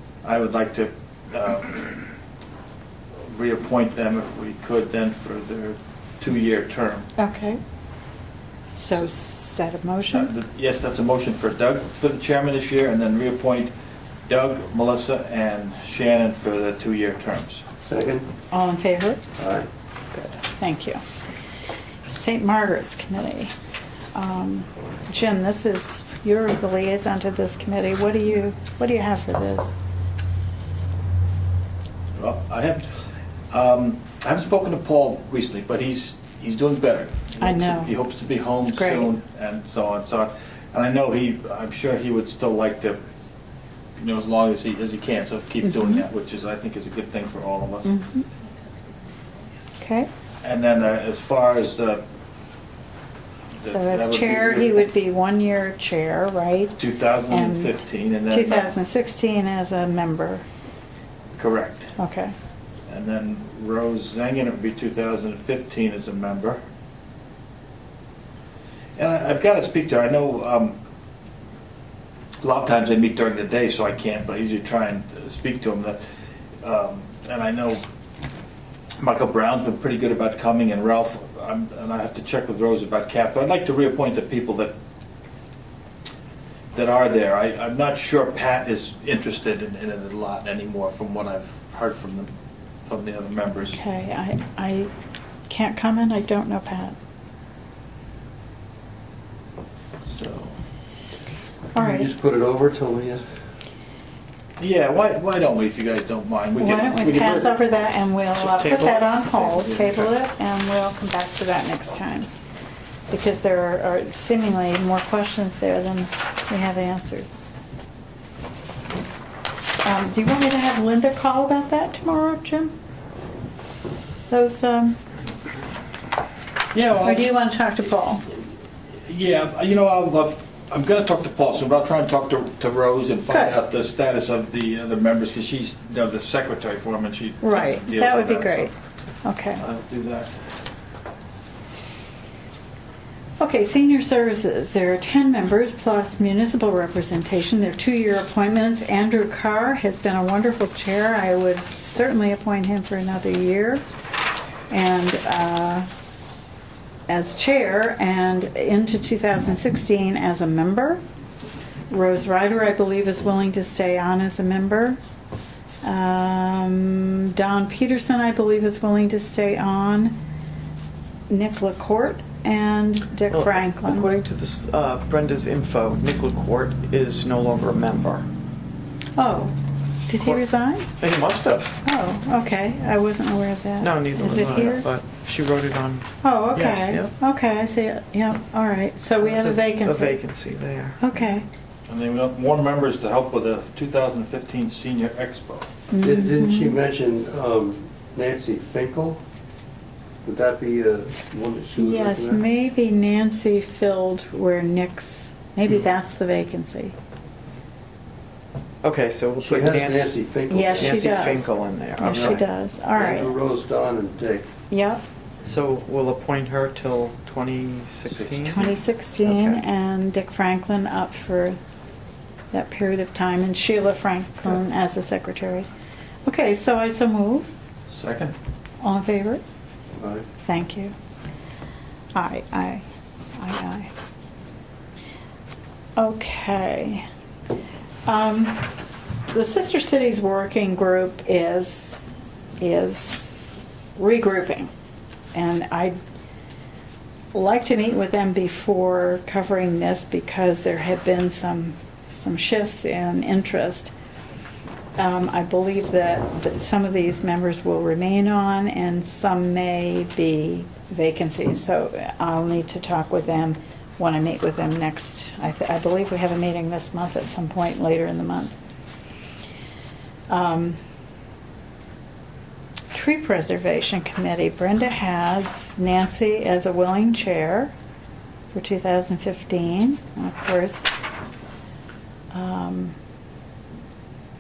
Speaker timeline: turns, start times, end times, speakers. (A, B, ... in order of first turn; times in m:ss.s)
0:00.2-0:02.0 A
0:03.2-0:07.1 A
0:07.2-0:07.6 B
0:08.7-0:10.3 B
0:10.1-0:13.7 A
0:14.3-0:17.7 A
0:17.8-0:18.3 C
0:18.5-0:19.2 B
0:19.4-0:19.7 C
0:20.1-0:21.0 B
0:22.0-0:23.5 B
0:24.2-0:29.7 B
0:32.2-0:32.9 A
0:33.5-0:43.0 A
0:37.4-0:38.0 B
0:38.6-0:39.1 B
0:44.0-0:48.0 A
0:47.8-0:48.3 B
0:49.8-0:50.1 B
0:50.4-0:52.0 A
0:53.6-0:54.9 A
0:53.7-0:56.8 B
0:56.8-0:58.8 A
0:57.3-1:00.4 B
1:01.4-1:01.9 A
1:02.0-1:02.3 B
1:02.9-1:06.6 A
1:09.0-1:10.8 A
1:12.4-1:16.0 A
1:16.6-1:17.8 A
1:19.0-1:24.7 A
1:26.7-1:32.3 A
1:32.8-1:33.8 A
1:33.7-1:34.9 B
1:35.5-1:37.0 B
1:40.1-1:40.5 A
1:41.8-1:42.1 B
1:41.8-1:43.2 C
1:44.6-1:47.9 A
1:46.6-1:52.3 B
1:48.4-1:49.9 D
1:49.6-1:50.0 A
1:53.1-1:57.3 B
1:59.8-2:02.7 B
2:04.3-2:05.0 B
2:06.7-2:07.3 A
2:07.0-2:08.2 B
2:09.0-2:18.7 A
2:13.3-2:13.6 B
2:17.4-2:18.7 B
2:19.2-2:19.6 B
2:19.6-2:20.3 A
2:23.4-2:33.8 B
2:34.7-2:35.9 B
2:37.1-2:41.0 B
2:41.9-2:45.0 B
2:45.8-2:50.2 B
2:51.3-2:54.1 B
2:53.3-2:58.2 D
2:59.2-2:59.5 B
3:00.1-3:00.9 B
3:01.0-3:01.7 D
3:01.8-3:04.9 B
3:03.8-3:07.1 D
3:06.2-3:10.2 B
3:09.2-3:11.0 D
3:11.0-3:11.4 B
3:11.9-3:15.7 A
3:15.9-3:16.8 B
3:16.0-3:19.2 C
3:20.2-3:22.4 C
3:21.8-3:26.9 B
3:28.8-3:30.1 D
3:29.4-3:31.2 C
3:30.5-3:33.3 B
3:30.7-3:32.4 D
3:32.9-3:34.5 C
3:34.7-3:35.0 B
3:35.4-3:38.7 D
3:38.1-3:38.7 A
3:38.4-3:41.6 B
3:39.2-3:39.6 D
3:42.5-3:45.7 B
3:46.2-3:47.5 B
3:47.9-3:48.3 A
3:48.8-3:49.4 B
3:50.0-3:50.2 C
3:50.4-3:50.9 B
3:52.1-3:52.8 B
3:53.4-3:53.9 B
3:56.0-3:57.0 B
3:58.0-3:58.7 B
3:59.3-4:02.1 B
4:02.6-4:03.3 B
4:04.0-4:04.7 B
4:05.3-4:06.0 B
4:07.3-4:13.9 B
4:15.0-4:28.6 B
4:30.3-4:30.8 B
4:32.9-4:37.7 B
4:38.5-4:40.9 B
4:42.3-4:42.9 B